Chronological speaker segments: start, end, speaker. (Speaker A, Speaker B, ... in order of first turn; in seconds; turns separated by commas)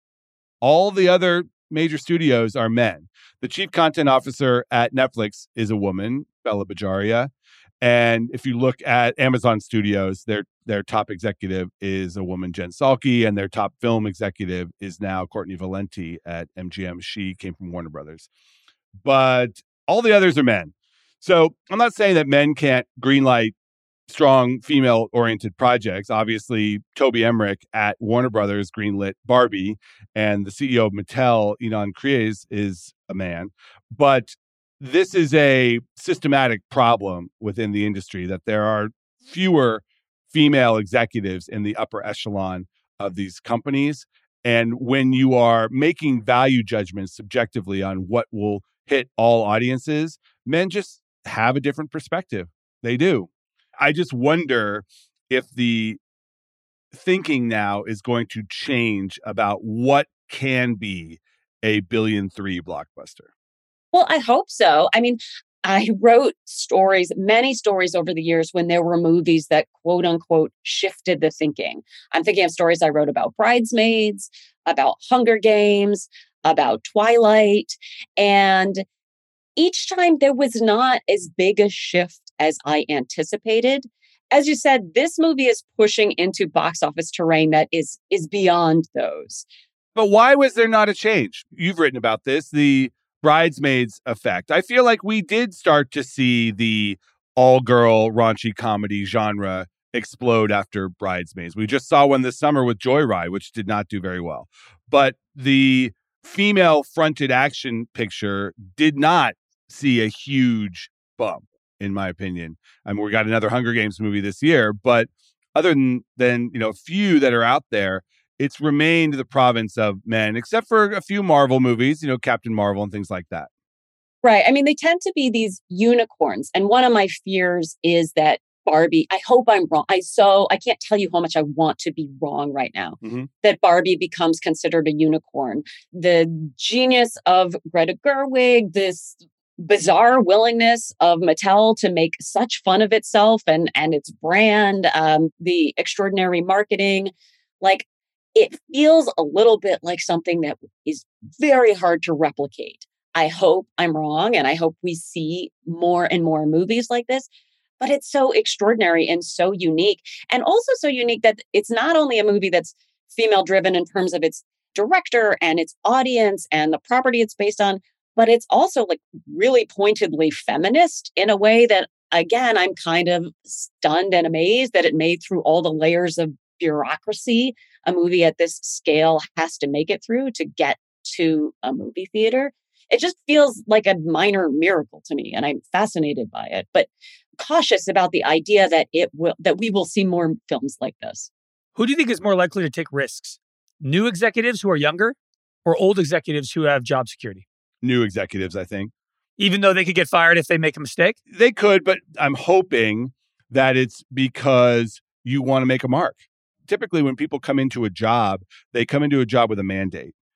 Speaker A: 0.6-7.3, Speaker A: 7.8-18.3, Speaker A: 19.0-23.5, Speaker A: 24.1-56.0, Speaker A: 56.9-63.3, Speaker B: 63.9-78.8, Speaker B: 79.6-89.5, Speaker A: 90.0-123.5, Speaker B: 124.2-157.3, Speaker A: 133.0-133.3, Speaker B: 157.8-191.3, Speaker C: 191.8-197.4, Speaker A: 197.8-198.9, Speaker C: 199.4-201.2, Speaker A: 201.3-210.1